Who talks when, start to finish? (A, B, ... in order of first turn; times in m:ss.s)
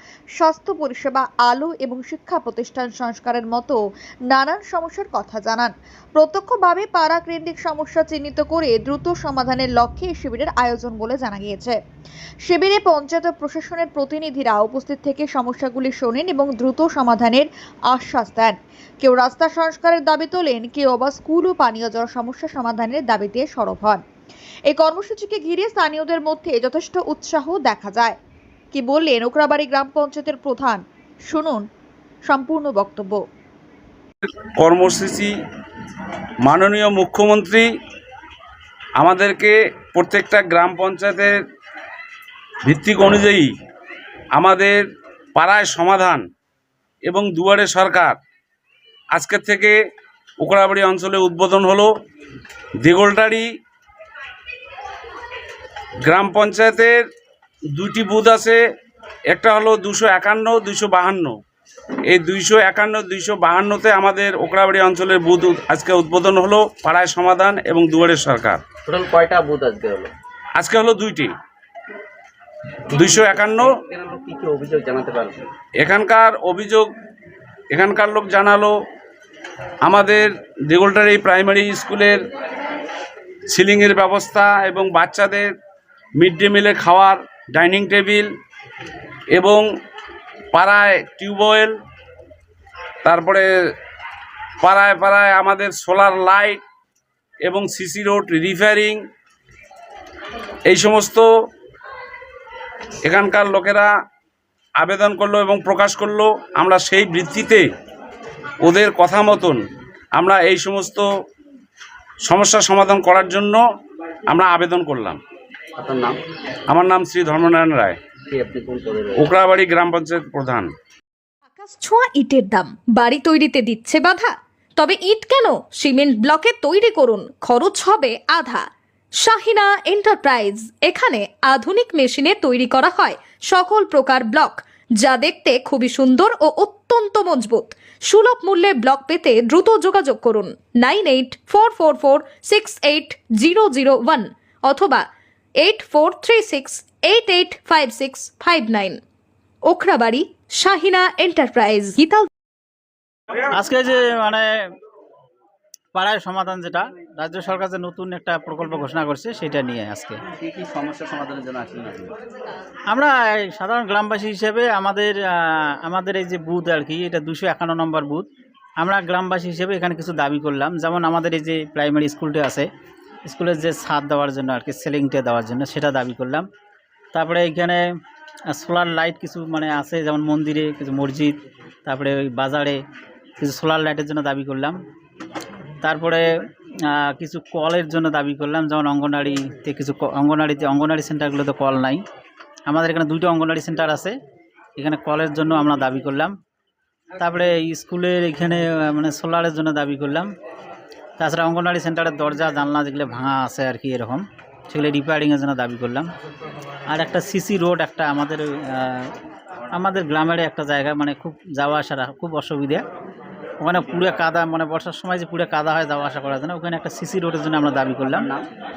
0:00.4-0:03.8 A
0:04.3-0:11.8 A
0:12.4-0:24.0 A
0:24.7-0:28.2 A
0:28.7-0:31.7 A
0:32.3-0:33.2 A
0:34.6-0:35.3 B
0:36.4-0:37.7 B
0:39.0-0:41.4 B
0:42.6-0:43.5 B
0:44.4-0:44.8 B
0:45.4-0:46.2 B
0:47.1-0:48.2 B
0:49.1-0:49.8 B
0:50.4-0:51.9 B
0:52.8-0:53.5 B
0:56.0-0:57.1 B
0:57.7-0:58.6 B
0:59.3-1:01.4 B
1:02.1-1:08.6 B
1:08.9-1:10.1 C
1:10.6-1:11.3 B
1:12.9-1:15.5 C
1:12.9-1:13.7 B
1:15.8-1:16.9 B
1:17.7-1:18.8 B
1:19.8-1:22.2 B
1:23.5-1:25.5 B
1:26.2-1:28.3 B
1:29.3-1:29.6 B
1:30.5-1:31.8 B
1:33.0-1:33.5 B
1:34.6-1:36.6 B
1:37.4-1:39.0 B
1:40.7-1:41.3 B
1:43.0-1:43.9 B
1:44.8-1:47.7 B
1:48.6-1:49.6 B
1:50.1-1:51.1 B
1:52.3-1:53.6 B
1:54.3-1:55.2 B
1:55.8-1:56.2 C
1:56.7-1:58.0 B
1:58.3-1:59.3 C
1:59.2-2:00.7 B
2:01.5-2:08.7 D
2:09.2-2:25.1 D
2:25.6-2:29.0 D
2:29.7-2:32.3 D
2:33.5-2:34.7 E
2:36.0-2:40.2 E
2:40.4-2:42.2 C
2:42.9-2:52.7 E
2:53.2-2:56.5 E
2:57.1-2:58.0 E
2:58.5-3:02.8 E
3:03.4-3:04.8 E
3:05.8-3:06.3 E
3:06.8-3:12.0 E
3:12.7-3:14.2 E
3:14.8-3:16.4 E
3:17.2-3:20.3 E
3:21.2-3:26.1 E
3:26.9-3:29.2 E
3:29.7-3:32.8 E
3:33.6-3:38.3 E
3:38.1-3:38.4 C